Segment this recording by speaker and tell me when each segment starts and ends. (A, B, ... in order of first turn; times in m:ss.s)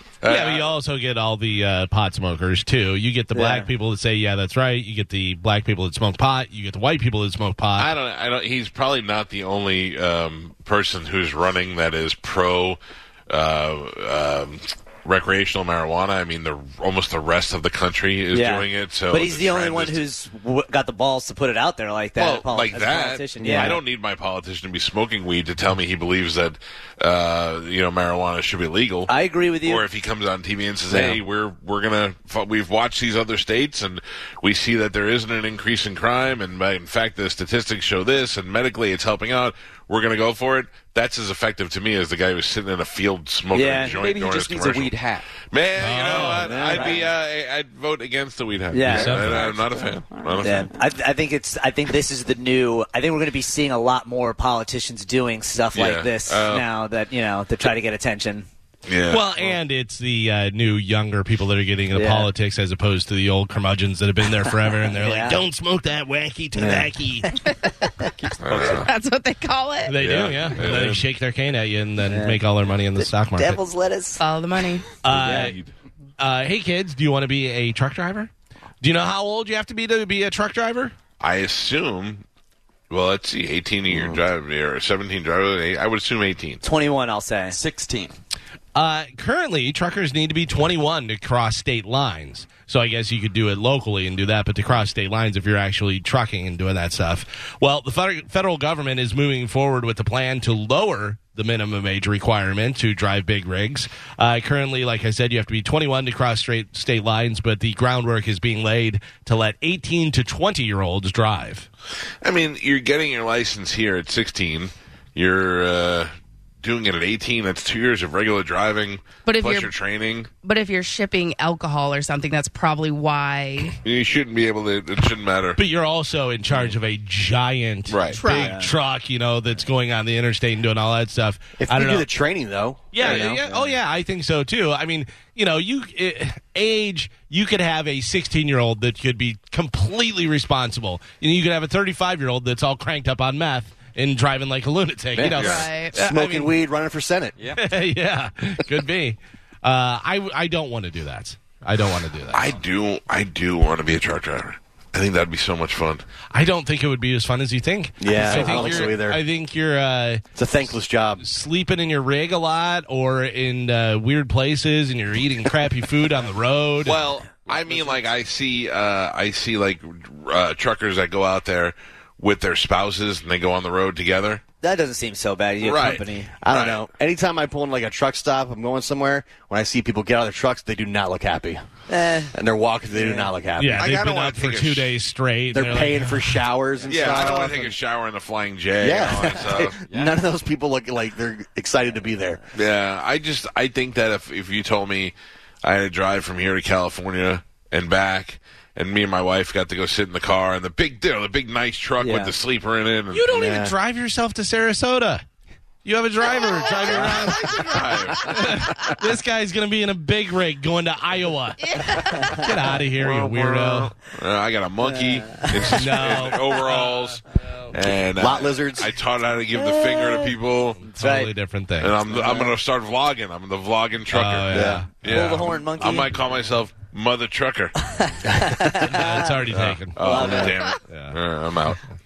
0:00.2-0:00.7 A
0:00.2-0:07.9 B
0:03.3-0:03.7 C
0:07.8-0:20.0 A
0:18.3-0:23.8 C
0:22.2-0:29.1 A
0:23.4-0:23.8 D
0:29.1-0:29.8 C
0:29.6-0:50.7 A
0:30.9-0:31.2 C
0:43.5-0:44.0 C
0:43.8-0:45.3 E
0:45.8-0:46.5 B
0:46.4-0:46.9 D
0:46.5-0:47.0 C
0:48.7-0:49.3 C
0:48.9-0:49.4 B
0:49.2-0:50.7 E
0:50.4-0:58.5 C
0:55.7-0:56.7 A
0:58.9-0:59.6 A
0:59.1-1:07.3 B
1:02.0-1:02.3 C
1:04.4-1:05.4 C
1:06.6-1:06.9 D
1:07.5-1:10.0 F
1:08.4-1:08.9 A
1:09.9-1:13.6 B
1:10.0-1:11.1 A
1:12.0-1:12.4 C
1:13.0-1:14.2 C
1:14.2-1:14.9 F
1:15.0-1:15.6 B
1:15.1-1:15.7 A
1:15.2-1:15.5 C
1:16.2-1:18.3 B
1:18.8-1:21.0 B
1:21.2-1:22.2 A
1:22.9-1:26.6 A
1:23.9-1:24.2 D
1:26.6-1:27.6 C
1:27.5-1:28.2 E
1:28.8-1:51.7 B
1:52.2-2:00.3 A
1:59.2-1:59.8 F
2:00.4-2:03.8 F
2:03.8-2:05.6 A
2:05.6-2:12.1 B
2:07.9-2:08.2 A
2:08.1-2:08.6 F
2:08.2-2:08.7 C
2:11.6-2:13.3 D
2:12.9-2:26.5 B
2:13.0-2:13.7 C
2:25.2-2:27.4 D
2:25.4-2:25.7 A
2:25.4-2:26.0 F
2:27.4-2:27.6 E
2:27.6-2:32.5 B
2:32.3-2:36.0 A
2:36.3-2:40.2 B
2:38.0-2:39.2 D
2:38.2-2:38.8 A
2:40.4-2:41.2 D
2:41.2-2:47.0 B
2:46.8-2:54.4 A
2:54.6-2:56.3 C
2:55.6-2:56.8 A
2:56.4-3:01.6 D
3:01.9-3:02.3 C
3:02.3-3:03.9 D
3:02.9-3:03.3 C
3:03.6-3:06.4 B
3:03.7-3:04.9 A
3:05.5-3:07.8 D
3:06.8-3:09.8 A
3:06.9-3:07.2 E
3:08.8-3:12.4 D
3:09.8-3:10.2 E
3:12.5-3:23.3 A
3:22.0-3:22.3 C
3:23.1-3:25.2 B
3:23.3-3:23.7 D
3:25.8-3:33.9 B
3:26.3-3:28.2 F
3:27.4-3:28.5 A
3:31.6-3:32.4 F
3:34.1-3:40.8 A
3:34.8-3:35.8 C
3:35.7-3:37.1 B
3:38.1-3:38.9 D
3:39.6-3:40.3 C
3:40.9-3:41.3 C
3:40.9-3:42.0 B
3:41.8-3:47.8 A
3:42.1-3:42.5 C
3:44.1-3:45.5 B
3:44.5-3:44.8 D
3:45.0-3:46.1 C
3:47.8-3:49.3 C
3:48.7-3:50.0 B
3:49.6-3:51.8 A
3:50.0-3:50.8 C
3:50.2-3:50.5 D
3:50.9-3:51.2 B